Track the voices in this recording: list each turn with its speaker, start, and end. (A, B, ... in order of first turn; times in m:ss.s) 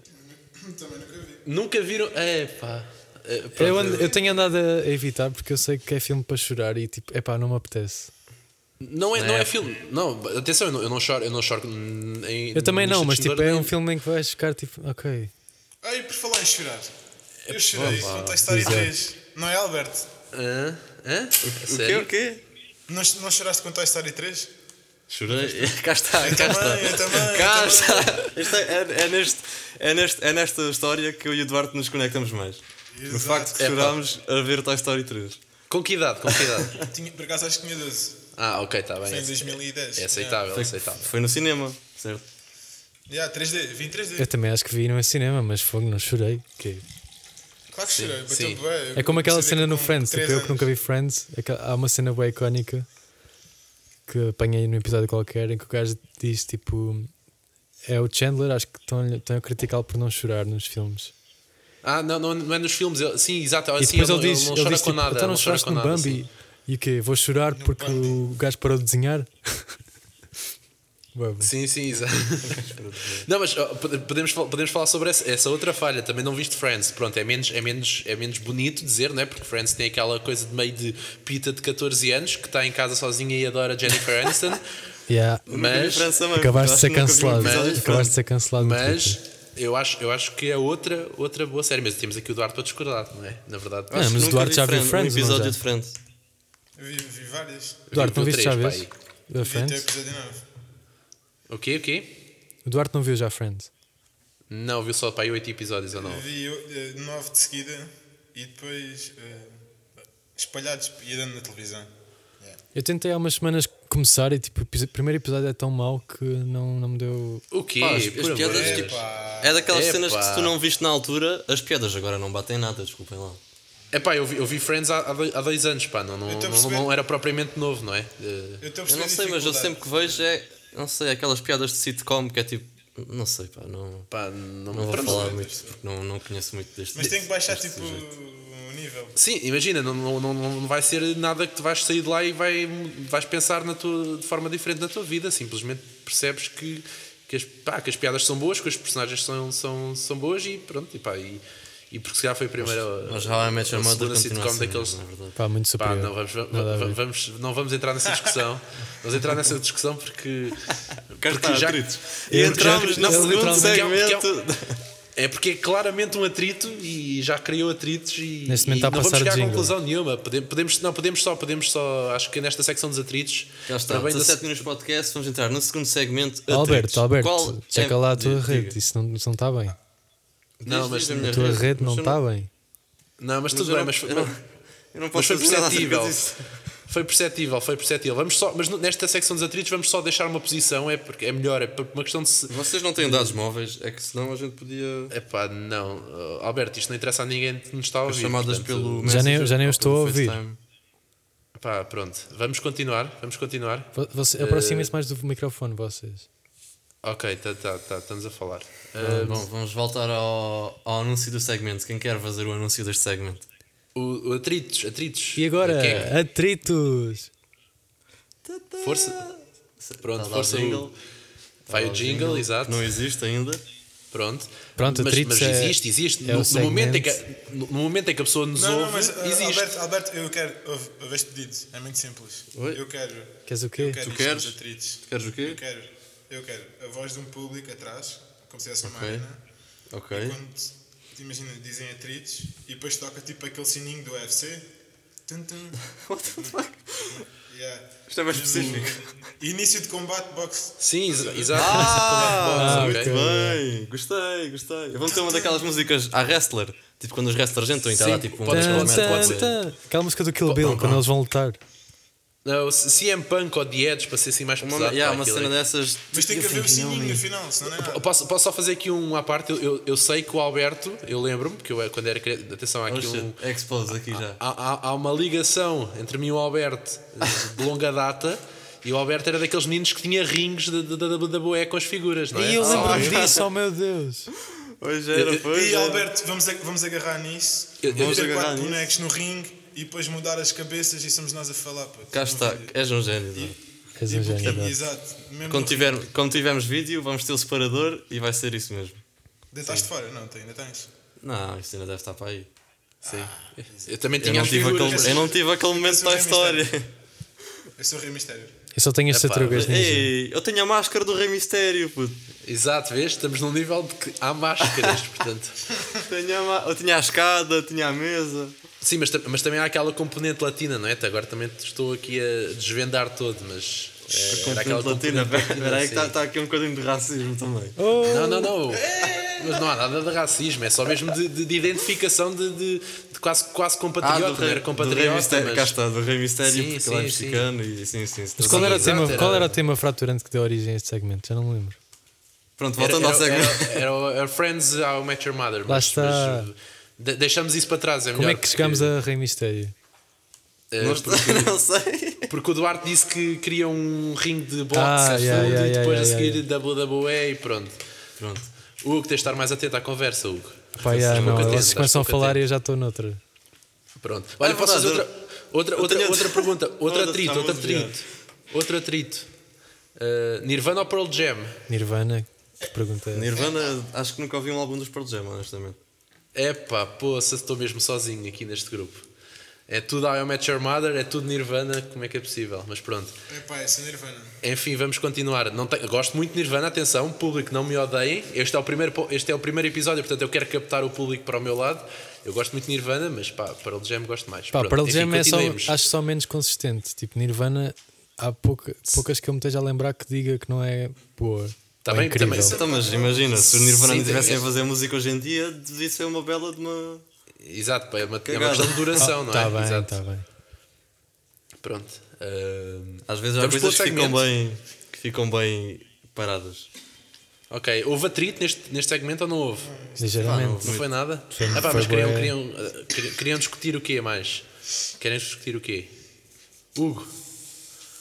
0:00.1-0:01.4 A
0:01.4-0:04.1 B
0:03.6-0:08.1 C
0:08.8-0:13.7 B
0:09.1-0:09.6 D
0:12.5-0:15.3 C
0:15.8-0:16.9 A
0:17.5-0:18.2 B
0:17.5-0:20.1 A
0:17.7-0:18.4 D
0:18.4-0:18.9 C
0:20.3-0:22.1 B
0:21.4-0:22.4 D
0:22.9-0:24.5 A
0:25.1-0:35.4 D
0:25.3-0:28.3 A
0:26.2-0:27.2 B
0:32.9-0:33.6 A
0:33.6-0:34.0 B
0:35.7-0:36.8 B
0:36.3-0:36.9 D
0:36.8-0:38.2 A
0:38.4-0:41.1 B
0:39.0-0:40.4 A
0:40.5-0:42.2 D
0:43.1-0:44.3 A
0:44.2-0:46.8 C
0:47.7-0:50.7 A
0:47.9-0:48.6 B
0:48.9-0:52.8 C
0:54.1-0:57.1 C
0:57.8-1:01.1 C
1:01.8-1:06.2 B
1:03.8-1:09.7 C
1:07.5-1:08.2 A
1:11.1-1:11.5 C
1:11.4-1:12.6 B
1:12.4-1:13.3 D
1:13.2-1:24.6 B
1:25.1-1:25.4 C
1:25.5-1:26.1 B
1:25.5-1:28.1 D
1:26.3-1:29.2 C
1:27.3-1:34.0 B
1:33.9-1:36.0 D
1:33.9-1:35.6 C
1:36.8-1:37.8 A
1:37.9-1:38.9 B
1:37.9-1:39.9 C
1:39.4-1:40.4 A
1:41.5-1:42.1 B
1:42.6-1:43.7 C
1:44.5-1:46.2 B
1:45.9-1:49.6 A
1:50.3-1:52.6 A
1:52.7-1:57.4 C
1:57.5-1:59.0 B
1:57.8-2:03.4 D
1:58.4-1:59.6 A
1:59.7-2:00.5 B
2:03.9-2:08.6 B
2:06.3-2:06.9 A
2:08.6-2:10.2 A
2:08.9-2:14.1 D
2:14.1-2:15.4 B
2:14.7-2:18.1 D
2:14.8-2:15.7 A
2:16.9-2:19.1 A
2:19.2-2:35.0 B
2:32.6-2:35.4 D
2:35.4-2:37.0 C
2:35.8-2:44.3 B
2:41.2-2:44.8 D
2:42.3-2:43.9 C
2:45.2-2:54.5 B
2:48.5-2:49.7 C
2:53.7-2:58.8 D
2:56.5-2:59.8 C
3:00.6-3:02.2 D
3:00.6-3:01.6 B
3:01.2-3:02.5 C
3:03.2-3:04.3 B
3:03.5-3:04.4 D
3:04.9-3:06.5 D
3:05.1-3:06.2 B
3:06.9-3:13.4 B
3:12.5-3:15.1 D
3:15.1-3:19.1 B
3:18.0-3:20.6 D
3:19.0-3:20.4 C
3:21.6-3:24.9 B
3:23.9-3:26.3 C
3:27.0-3:29.4 B
3:29.0-3:33.4 D
3:33.9-3:36.1 B
3:35.4-3:37.3 C
3:38.4-3:40.9 D
3:38.8-3:39.2 B
3:40.0-3:40.9 B
3:41.6-3:43.6 D
3:41.7-3:42.8 B
3:44.1-3:49.7 B
3:44.8-3:47.2 C
3:48.5-3:59.4 A
3:52.5-3:52.8 D
3:53.4-3:54.0 C
3:54.0-3:55.6 D
3:58.8-3:59.2 D
3:59.9-4:00.4 D
4:00.1-4:04.7 A
4:05.3-4:05.8 A
4:05.9-4:07.2 D
4:07.1-4:12.4 A
4:08.1-4:09.0 D
4:10.8-4:13.1 B
4:11.5-4:19.5 D
4:12.4-4:13.6 C
4:15.1-4:15.8 A
4:17.9-4:19.6 B
4:18.5-4:21.6 C
4:20.5-4:20.9 B
4:20.6-4:21.0 D
4:22.4-4:25.5 B
4:24.6-4:27.2 D
4:26.1-4:28.1 A
4:27.6-4:33.4 B
4:32.9-4:34.4 D
4:34.1-4:43.4 B
4:42.3-4:44.3 C
4:42.6-4:43.5 D
4:44.3-4:46.1 D
4:45.1-4:45.4 B
4:45.4-4:52.7 A
4:47.8-4:48.2 B
4:47.9-4:48.9 D
4:52.1-4:53.6 D
4:53.3-4:56.0 A
4:54.0-4:54.8 C
4:55.5-4:59.0 D
4:59.5-5:00.9 A
5:01.2-5:02.5 D
5:03.0-5:05.3 B
5:03.0-5:06.7 A
5:04.2-5:06.9 D
5:07.8-5:08.5 A
5:08.7-5:10.1 C
5:09.1-5:09.7 B
5:09.5-5:12.2 D
5:12.4-5:15.6 B
5:14.7-5:14.9 D
5:16.0-5:18.6 D
5:18.8-5:26.1 B
5:24.2-5:27.9 D
5:27.8-5:28.5 C
5:28.0-5:35.8 B
5:29.0-5:29.6 A
5:34.0-5:39.6 D
5:36.4-5:37.5 B
5:38.4-5:41.8 C
5:38.4-5:39.5 B
5:42.6-5:43.9 D
5:42.8-5:48.9 B
5:45.7-5:46.5 C
5:48.1-5:49.7 C
5:50.7-5:51.5 B
5:50.8-5:52.3 D
5:52.3-5:57.8 B
5:54.7-5:56.4 C
5:55.3-5:55.6 D
5:58.2-5:58.5 D
5:58.8-6:02.4 B
6:00.8-6:03.2 C
6:00.8-6:01.8 D
6:04.0-6:09.3 B
6:04.4-6:05.1 D
6:05.8-6:08.0 D
6:10.0-6:11.6 B
6:11.7-6:13.3 C
6:13.1-6:15.8 D
6:16.3-6:19.0 B
6:19.7-6:23.2 B
6:23.3-6:24.3 A
6:24.4-6:35.8 B
6:34.5-6:42.6 C
6:41.8-6:42.7 B
6:42.3-6:47.0 D
6:42.3-6:44.4 A
6:43.6-6:44.4 B
6:47.4-6:49.9 B
6:48.2-6:49.1 D
6:49.0-6:50.2 C
6:51.6-6:54.2 B
6:53.0-6:56.7 D
6:57.5-6:59.7 B
6:59.6-7:00.3 A
7:00.0-7:02.3 C
7:00.2-7:00.9 D
7:00.6-7:04.4 B
7:05.0-7:05.9 B
7:06.7-7:07.1 B